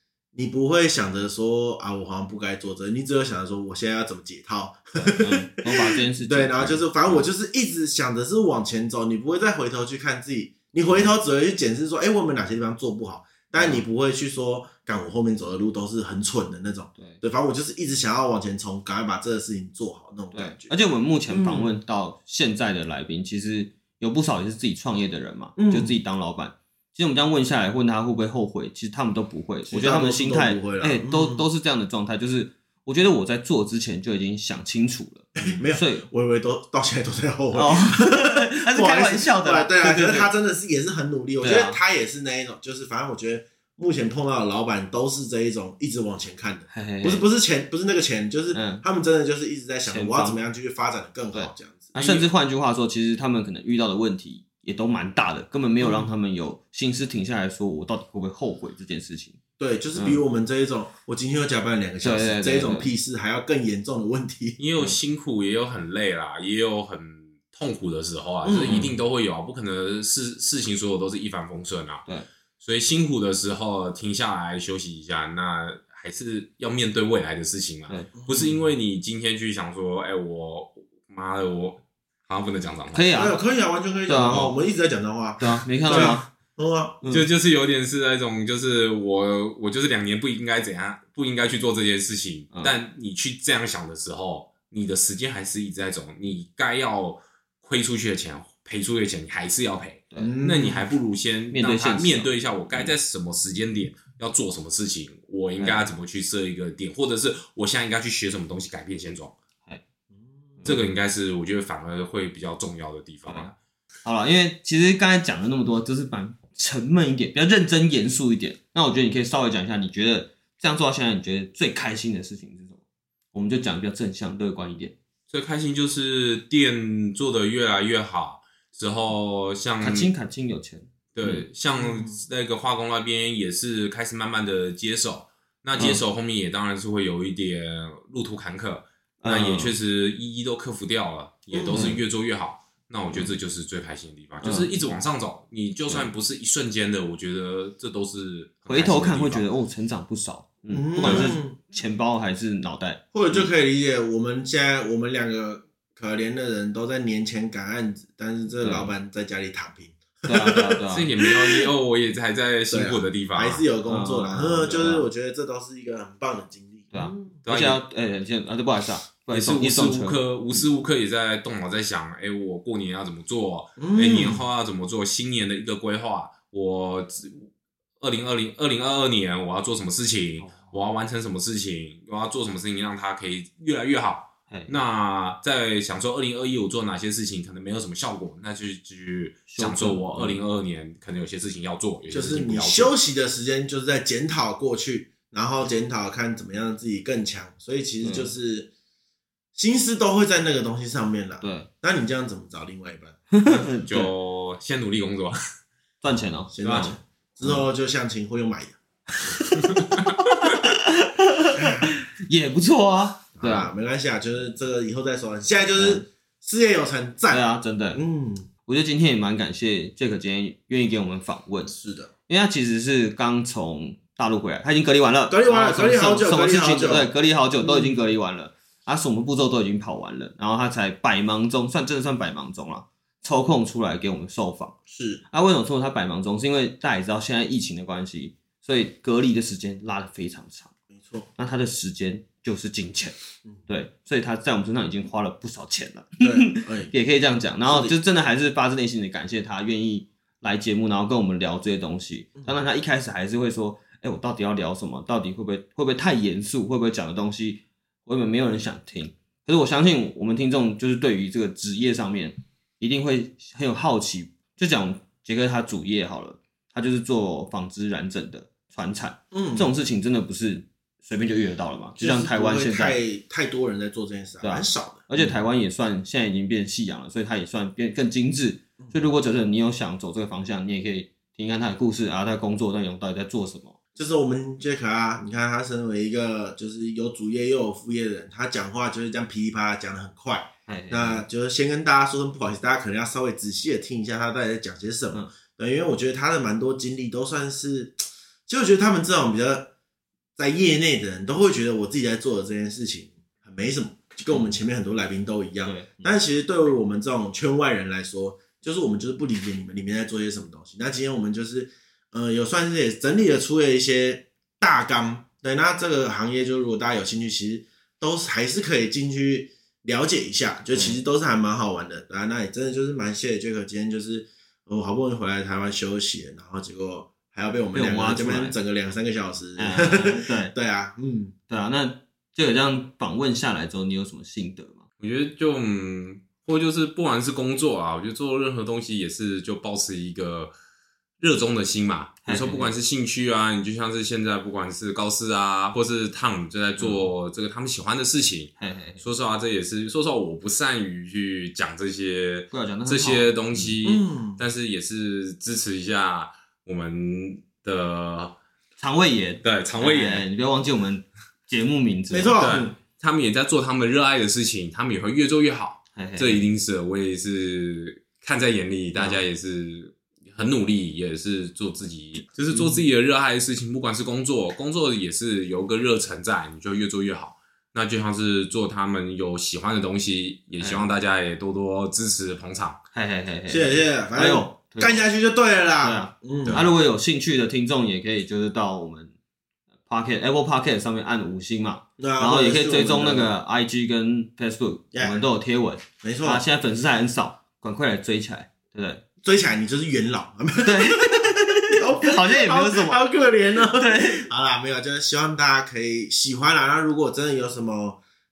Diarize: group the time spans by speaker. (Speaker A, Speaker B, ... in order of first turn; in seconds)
Speaker A: 0.3-20.7, 21.3-21.7, 25.6-25.9, 29.7-31.4, 35.4-52.0, 55.8-56.1, 59.6-64.6, 68.4-69.0, 78.2-78.6, 83.1-87.0, 100.2-100.9, 131.8-132.1, 141.5-142.0, 150.7-151.6, 153.1-161.7, 162.7-167.4, 173.8-174.4, 192.1-198.7, 199.6-203.2, 206.5-208.8, 211.6-211.9, 213.4-218.5, 221.7-222.1, 225.3-227.1, 227.6-227.9, 234.9-235.2, 240.9-241.3, 246.2-246.9, 247.7-248.0, 269.3-269.7, 272.0-275.4, 283.9-299.7, 300.4-331.3, 353.8-354.4, 362.1-362.8, 383.5-386.7, 392.0-393.3, 394.9-395.2, 396.0-396.4, 399.2-408.0
Speaker B: 5.1-7.2, 13.6-13.8, 20.3-36.1, 37.5-40.3, 41.4-41.8, 46.7-47.2, 48.5-48.8, 49.9-50.4, 51.3-59.4, 62.0-62.9, 68.7-68.9, 82.9-83.4, 84.1-84.5, 85.4-86.3, 101.5-102.9, 105.6-105.9, 110.6-110.9, 113.3-113.5, 114.0-122.8, 123.3-125.0, 129.8-131.4, 139.2-139.7, 141.7-142.0, 144.4-144.7, 148.7-153.5, 158.6-158.9, 160.3-161.1, 163.9-165.1, 166.9-170.7, 180.4-180.7, 184.5-184.8, 189.5-190.4, 198.0-198.3, 201.4-201.7, 203.3-204.1, 206.0-206.9, 210.4-213.7, 215.8-216.1, 217.3-218.0, 218.7-221.7, 222.3-234.7, 235.3-240.7, 241.4-273.0, 274.4-283.8, 290.7-291.2, 305.6-306.2, 320.7-321.0, 327.7-328.6, 329.6-330.5, 331.5-334.8, 342.2-342.7, 346.8-347.1, 348.6-349.0, 352.5-353.7, 358.8-362.4, 365.9-366.5, 368.9-369.2, 372.5-372.8, 380.6-380.9, 382.9-385.1, 385.8-389.1, 389.9-399.0, 400.6-403.1, 403.7-404.3
Speaker C: 52.0-52.3, 64.6-72.0, 72.6-83.3, 87.1-109.3, 110.6-113.5, 125.3-130.1, 131.1-149.4, 151.0-151.4, 160.9-163.6, 167.4-167.8, 169.3-192.9, 203.4-205.4, 206.6-206.9, 209.5-210.6, 335.0-340.5, 341.2-358.4, 359.4-360.2, 362.4-382.8